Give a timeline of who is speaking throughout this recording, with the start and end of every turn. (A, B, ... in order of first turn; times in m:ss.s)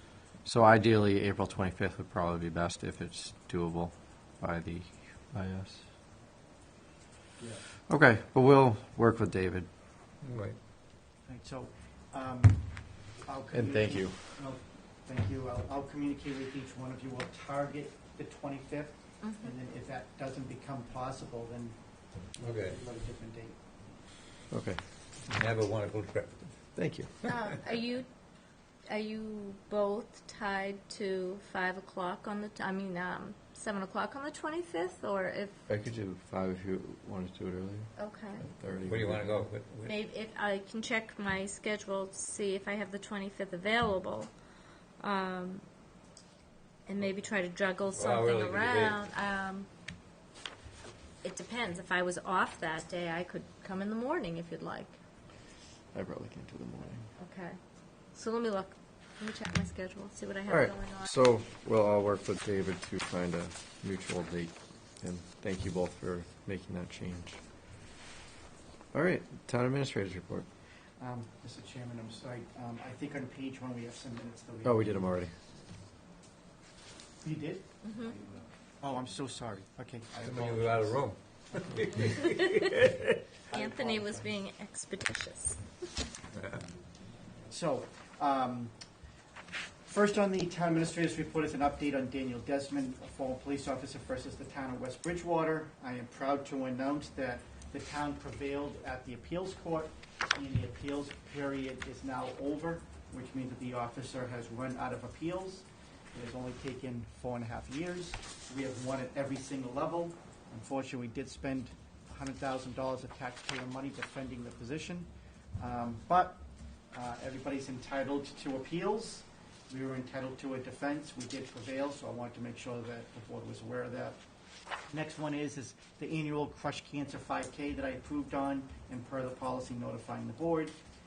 0:00.4-0:05.8 A
0:07.9-0:09.7 A
0:10.2-0:10.6 B
0:11.3-0:12.6 C
0:13.2-0:21.8 C
0:13.5-0:14.2 A
0:19.2-0:19.5 D
0:22.4-0:23.6 C
0:22.4-0:22.8 B
0:24.5-0:24.8 A
0:25.3-0:26.5 B
0:26.8-0:27.2 A
0:27.2-0:28.1 D
0:28.9-0:35.6 D
0:35.7-0:39.4 A
0:38.0-0:38.5 D
0:38.9-0:40.0 B
0:39.9-0:44.3 D
0:45.0-0:45.6 D
0:46.9-0:49.7 D
0:48.0-0:49.0 B
0:51.2-0:55.0 D
0:55.9-0:57.1 A
0:57.2-0:57.6 D
0:58.1-1:01.1 D
1:00.5-1:07.4 A
1:08.9-1:10.5 A
1:11.0-1:15.2 C
1:14.6-1:15.3 A
1:17.2-1:17.8 C
1:17.8-1:18.2 D
1:18.8-1:22.2 C
1:20.2-1:23.2 B
1:22.0-1:22.6 D
1:23.5-1:24.4 C
1:23.5-1:25.6 D
1:26.3-1:26.7 B
1:27.5-1:28.7 C
1:29.8-1:56.4 C
1:56.9-2:04.2 C
2:04.9-2:10.8 C